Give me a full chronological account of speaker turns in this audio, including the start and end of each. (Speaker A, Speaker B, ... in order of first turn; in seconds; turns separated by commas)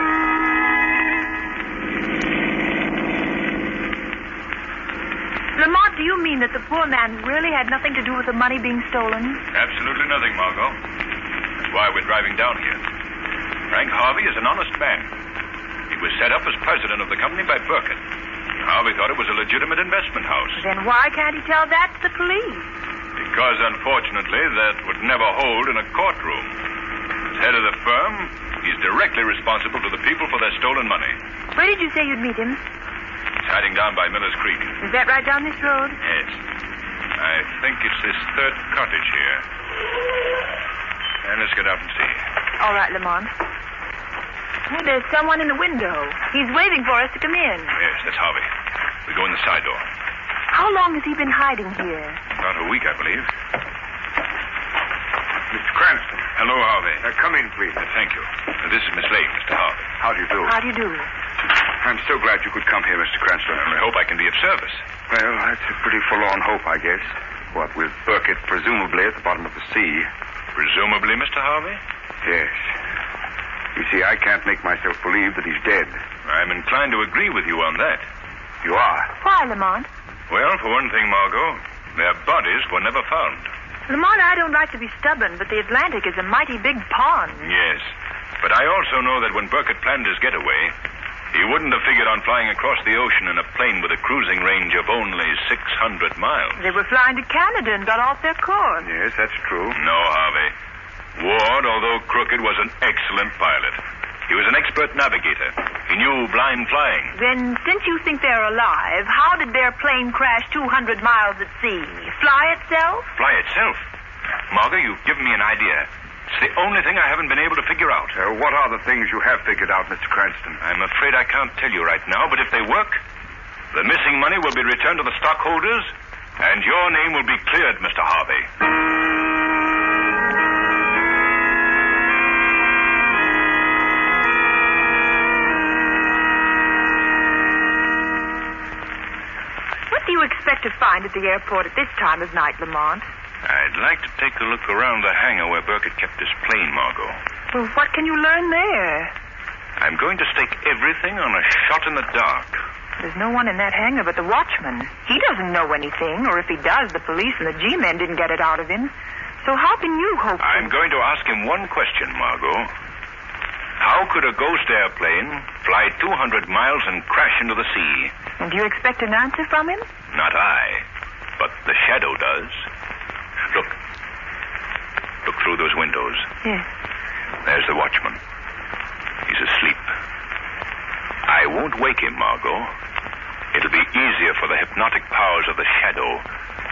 Speaker A: 5.5-9.4, Speaker B: 9.5-10.8, Speaker B: 11.6-12.8, Speaker B: 13.7-15.1, Speaker B: 15.9-18.0, Speaker B: 18.6-20.6, Speaker A: 20.6-22.7, Speaker B: 23.2-26.6, Speaker B: 27.3-31.2, Speaker A: 31.5-32.6, Speaker B: 33.4-34.8, Speaker A: 34.8-36.0, Speaker B: 36.0-36.4, Speaker B: 37.2-39.4, Speaker B: 41.2-42.2, Speaker A: 42.6-43.3, Speaker A: 44.7-47.8, Speaker B: 47.8-48.5, Speaker B: 49.1-49.9, Speaker A: 50.5-52.2, Speaker B: 52.3-53.3, Speaker C: 55.5-56.3, Speaker B: 56.4-57.0, Speaker C: 57.0-57.9, Speaker B: 57.8-59.9, Speaker C: 60.0-60.5, Speaker A: 60.5-61.1, Speaker C: 61.8-63.8, Speaker B: 63.7-64.8, Speaker C: 65.1-70.1, Speaker B: 70.5-71.8, Speaker C: 72.2-72.7, Speaker C: 73.8-76.0, Speaker B: 76.2-78.0, Speaker C: 78.6-79.1, Speaker A: 79.2-79.9, Speaker B: 80.3-83.5, Speaker A: 83.9-87.4, Speaker B: 87.4-87.9, Speaker B: 88.4-90.7, Speaker B: 91.3-96.6, Speaker A: 96.6-98.9, Speaker C: 98.8-99.8, Speaker B: 99.8-100.5, Speaker B: 101.2-107.1, Speaker A: 107.1-113.1, Speaker B: 113.2-113.9, Speaker B: 114.5-118.1, Speaker C: 118.2-120.6, Speaker B: 120.6-123.0, Speaker B: 123.7-128.5, Speaker A: 139.9-143.1, Speaker B: 143.4-147.2, Speaker A: 147.5-149.1, Speaker B: 149.8-152.6, Speaker A: 153.0-160.7, Speaker B: 160.4-162.7, Speaker B: 163.8-168.1, Speaker A: 168.4-169.9, Speaker B: 170.1-170.8, Speaker B: 171.4-172.7, Speaker B: 175.2-176.3, Speaker B: 177.4-178.2, Speaker B: 179.3-179.9, Speaker B: 181.3-182.7, Speaker B: 183.5-186.2